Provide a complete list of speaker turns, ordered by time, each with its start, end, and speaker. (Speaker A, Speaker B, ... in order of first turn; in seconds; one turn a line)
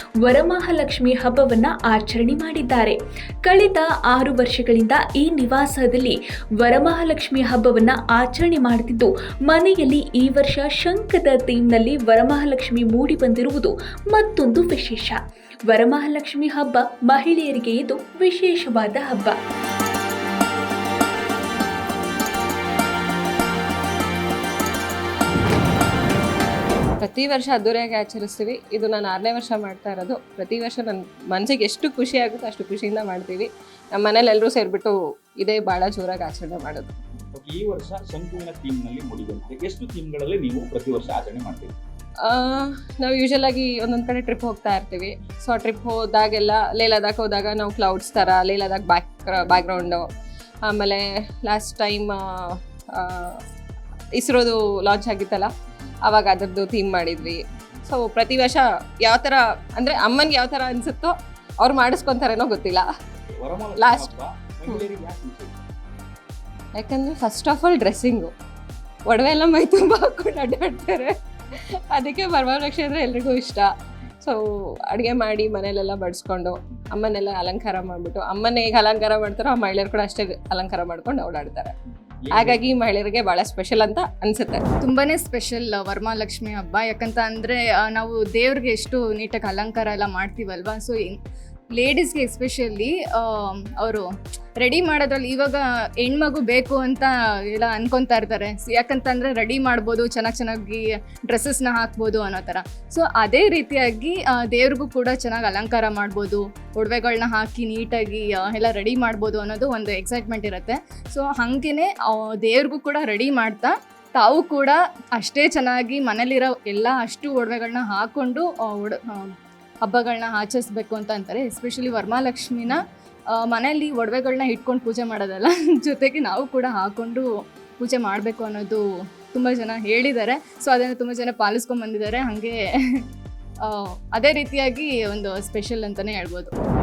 Speaker A: 0.2-19.4
Speaker B: 27.0-37.0
Speaker C: 37.3-41.7
Speaker B: 42.2-50.1
Speaker B: 50.7-53.4
Speaker B: 54.2-55.5
Speaker B: 56.0-62.9
Speaker C: 63.3-65.6
Speaker B: 63.8-64.1
Speaker B: 66.8-68.3
Speaker B: 69.1-73.7
Speaker B: 74.2-81.7
Speaker C: 82.2-82.6
Speaker B: 82.3-84.6
Speaker D: 84.8-91.2
Speaker D: 91.8-94.1
Speaker D: 94.6-119.3
Speaker D: 119.8-122.8
Speaker D: 123.4-128.8
Speaker D: 129.3-133.1
Speaker D: 133.6-136.5